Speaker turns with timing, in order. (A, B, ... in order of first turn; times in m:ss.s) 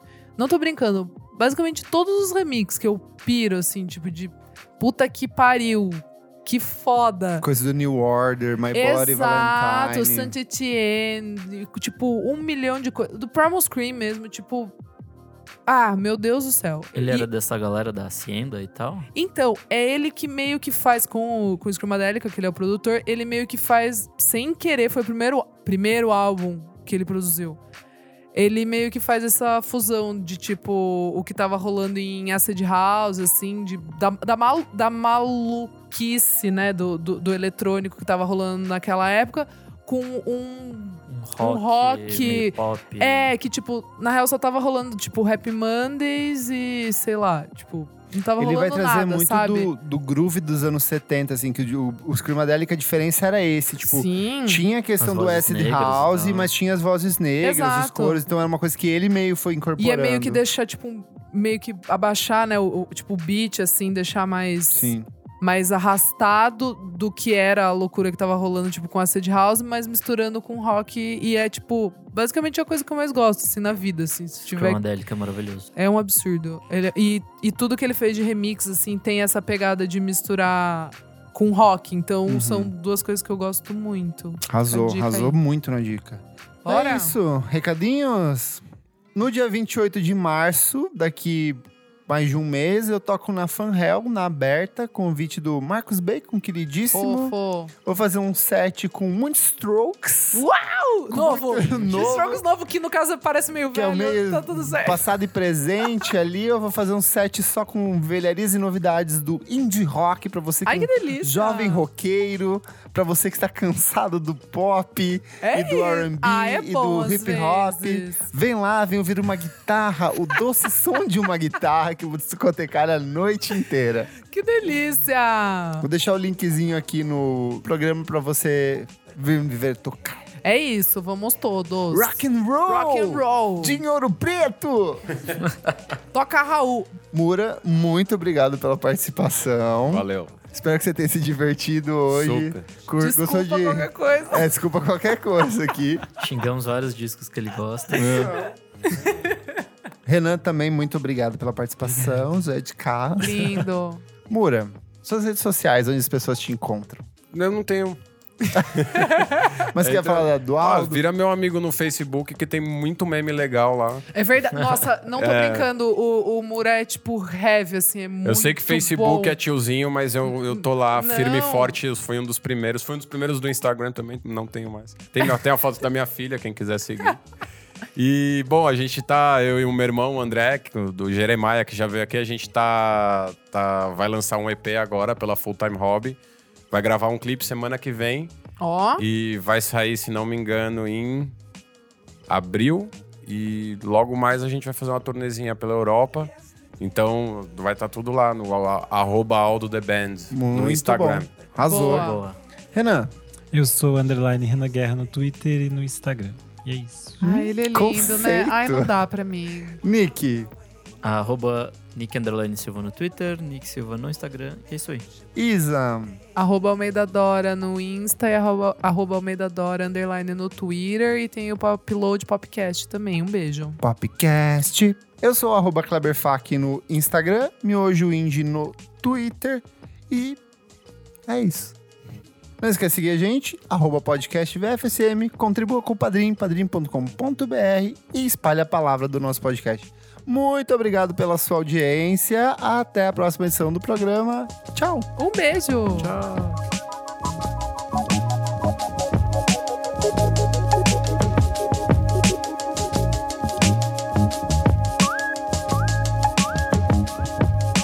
0:00.4-0:07.4 A
0:07.4-0:10.3 B
0:08.7-0:14.8 A
0:15.7-0:17.3 A
0:17.0-0:19.1 C
0:19.1-0:27.6 A
0:28.3-0:49.7 A
0:41.1-0:43.3 C
0:48.4-1:00.4 B
0:53.8-0:54.6 A
0:55.0-0:56.5 C
0:57.4-0:58.2 A
0:59.8-1:14.8 A
1:04.7-1:05.1 B
1:14.5-1:15.7 C
1:15.8-1:25.4 A
1:22.3-1:22.7 B
1:24.5-1:28.6 B
1:26.6-1:27.2 A
1:29.2-1:37.3 B
1:36.9-1:37.7 A
1:37.8-1:40.4 B
1:40.3-1:45.0 A
1:41.1-1:42.4 B
1:43.7-2:04.1 B
1:50.7-1:51.8 A
1:55.4-1:58.2 A
2:04.2-2:05.9 A
2:05.8-2:10.2 B
2:10.4-2:13.8 A
2:11.9-2:15.1 B
2:16.1-2:17.0 A
2:17.1-2:26.0 B
2:19.9-2:20.4 D
2:22.1-2:22.7 D
2:23.0-2:24.5 A
2:26.2-2:28.4 C
2:27.9-2:28.5 B
2:30.1-2:33.7 B
2:33.2-2:34.0 A
2:34.3-2:37.0 B
2:37.3-2:38.0 D
2:38.7-2:39.1 D
2:39.0-2:39.5 A
2:39.7-2:41.0 B
2:39.8-2:44.1 D
2:44.1-2:49.4 A
2:45.2-2:45.7 D
2:48.2-2:57.2 D
2:50.6-2:51.8 A
2:58.0-3:06.2 D
3:06.7-3:08.3 D
3:08.6-3:09.0 A
3:09.0-3:11.3 D
3:12.3-3:21.4 D
3:20.3-3:22.1 B
3:21.7-3:22.2 A
3:21.7-3:22.4 C
3:22.7-3:23.1 B
3:23.5-3:27.2 E
3:27.2-3:28.9 B
3:27.2-3:29.8 A
3:29.8-3:30.5 B
3:31.0-3:35.1 C
3:35.4-3:36.2 B
3:36.4-3:43.8 A
3:43.8-3:50.4 B
3:51.3-3:51.8 B
3:52.6-4:05.1 B
4:05.2-4:06.3 A